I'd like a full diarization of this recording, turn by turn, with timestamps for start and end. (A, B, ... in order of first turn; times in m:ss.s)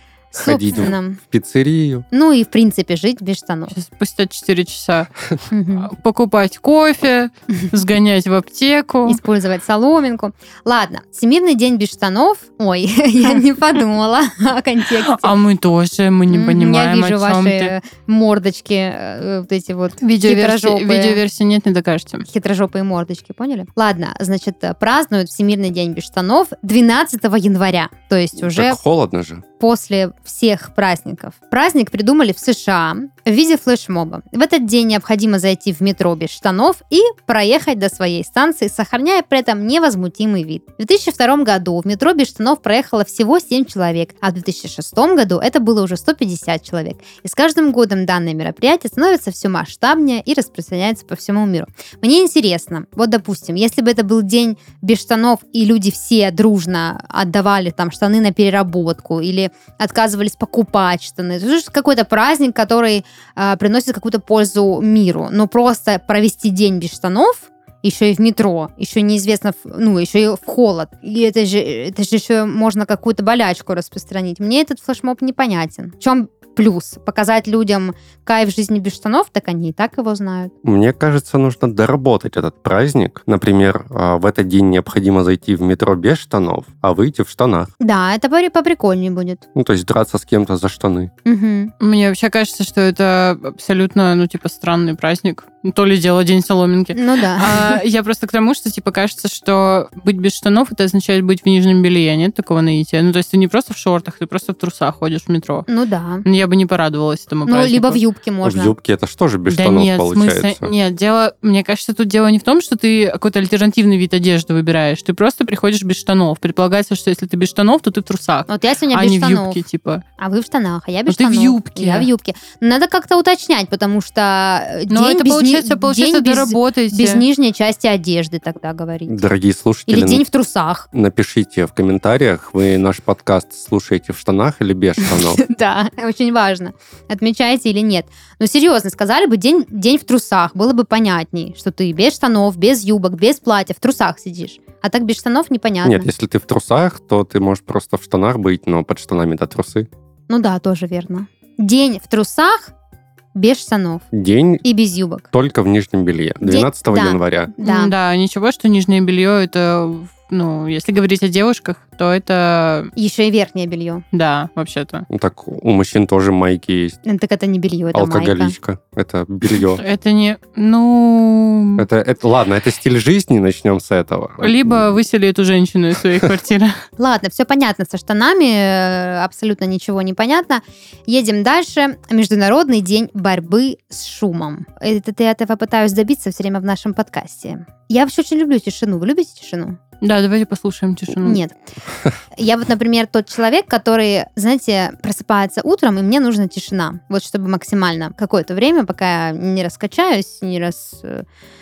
0:00.3-0:01.2 A
0:00.4-0:02.1 B
0:02.1-0:03.7 A
0:03.7-0:05.1 C
0:05.5-0:05.9 A
0:05.8-0:09.2 C
0:09.1-0:15.3 A
0:15.0-0:17.7 C
0:16.3-0:21.2 A
0:20.0-0:22.2 C
0:22.2-0:28.8 A
0:28.4-0:29.4 B
0:29.6-1:20.5 A
1:20.6-1:27.7 B
1:27.8-1:29.4 A
1:29.6-1:31.1 B
1:31.2-1:31.7 A
1:31.8-1:45.7 C
1:37.0-1:37.8 A
1:45.7-1:46.2 A
1:46.2-1:48.0 C
1:47.5-1:48.7 A
1:48.4-1:50.7 B
1:49.5-2:00.0 C
1:58.5-1:59.6 A
2:00.2-2:09.2 A
2:01.1-2:02.1 C
2:04.9-2:07.2 C
2:09.1-2:10.2 B
2:09.9-2:10.9 A
2:10.9-2:15.4 B
2:15.0-2:26.1 A
2:25.8-2:29.9 B
2:30.3-2:32.7 A
2:33.4-2:34.1 A
2:34.1-2:34.6 B
2:34.6-2:35.3 A
2:35.3-2:37.5 B
2:36.4-2:37.9 A
2:37.6-2:42.9 C
2:43.0-2:44.0 A
2:44.1-2:45.1 C
2:45.1-2:47.0 B
2:47.0-2:48.5 A
2:47.9-2:49.8 B
2:49.7-2:51.9 C
2:51.8-2:54.8 B
2:54.4-2:56.8 C
2:57.0-3:09.8 A
3:10.0-3:11.4 C
3:11.2-3:11.6 A
3:12.4-3:21.2 A